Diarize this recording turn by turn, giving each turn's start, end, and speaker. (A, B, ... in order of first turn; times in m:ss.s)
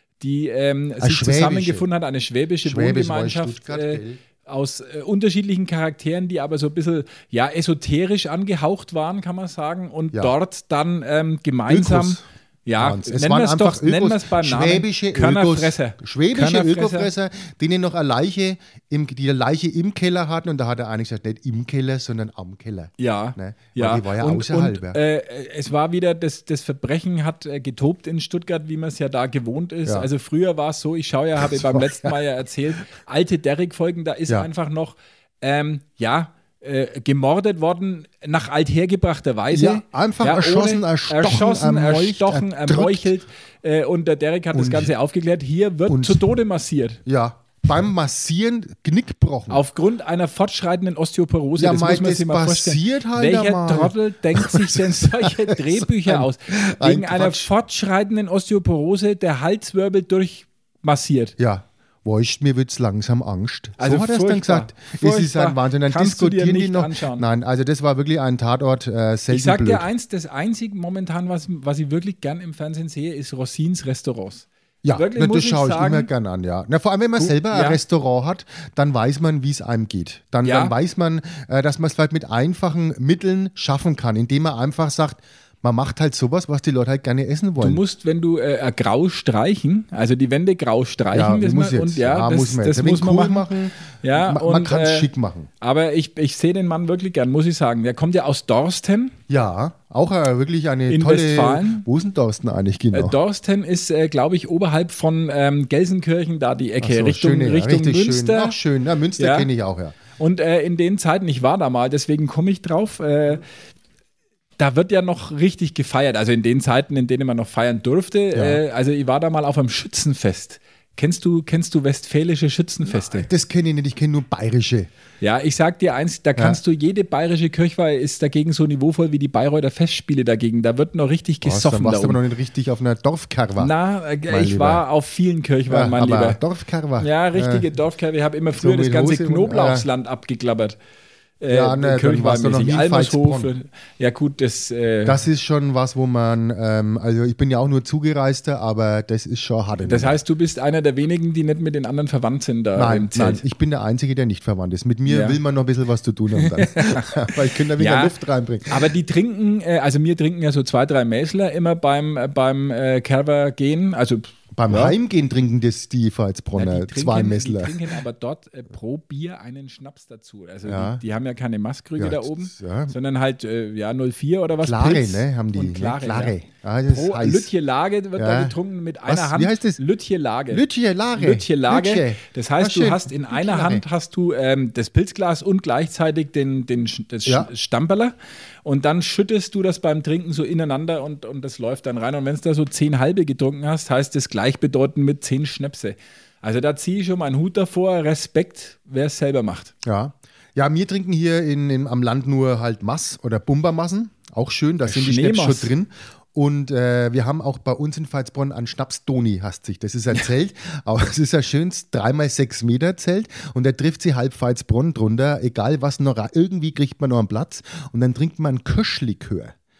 0:00.2-0:17.1 A
0:01.0-0:01.8 B
0:02.6-0:04.2 B
0:11.7-0:12.2 B
0:12.8-0:25.0 B
0:23.0-0:47.0 A
0:31.4-0:32.2 B
0:39.5-0:43.1 B
0:44.5-0:44.9 B
0:45.9-0:46.2 B
0:47.0-0:49.6 B
0:49.5-1:01.3 A
0:51.6-0:57.5 B
1:01.4-1:09.9 B
1:03.8-1:07.2 A
1:09.3-1:16.1 A
1:14.8-1:27.8 B
1:17.2-1:17.8 A
1:20.4-1:20.7 A
1:27.6-1:33.5 A
1:31.1-1:35.5 B
1:34.0-1:35.1 A
1:35.6-1:39.2 A
1:39.3-1:43.2 B
1:40.9-1:41.8 A
1:42.9-1:48.6 A
1:46.8-1:50.0 B
1:49.2-1:49.5 A
1:50.2-1:53.4 A
1:54.6-2:03.3 A
1:58.3-1:58.6 B
2:02.9-2:04.9 B
2:05.2-2:12.2 A
2:11.4-2:13.7 B
2:13.6-2:16.4 A
2:14.3-2:14.8 B
2:15.7-2:17.7 B
2:17.0-2:20.8 A
2:18.6-2:19.9 B
2:21.4-2:25.2 A
2:21.5-2:23.5 B
2:25.0-2:30.2 B
2:29.8-2:33.4 A
2:32.8-2:38.9 B
2:35.0-2:35.4 A
2:36.4-2:38.1 A
2:38.7-2:45.0 A
2:44.6-2:47.7 B
2:46.6-2:56.3 A
2:50.6-2:51.0 B
2:52.0-2:52.9 B
2:54.6-2:57.5 B
2:56.9-3:00.6 A
2:58.2-2:59.8 B
3:00.5-3:03.8 B
3:01.1-3:19.7 A
3:19.8-3:39.5 B
3:24.8-3:25.7 A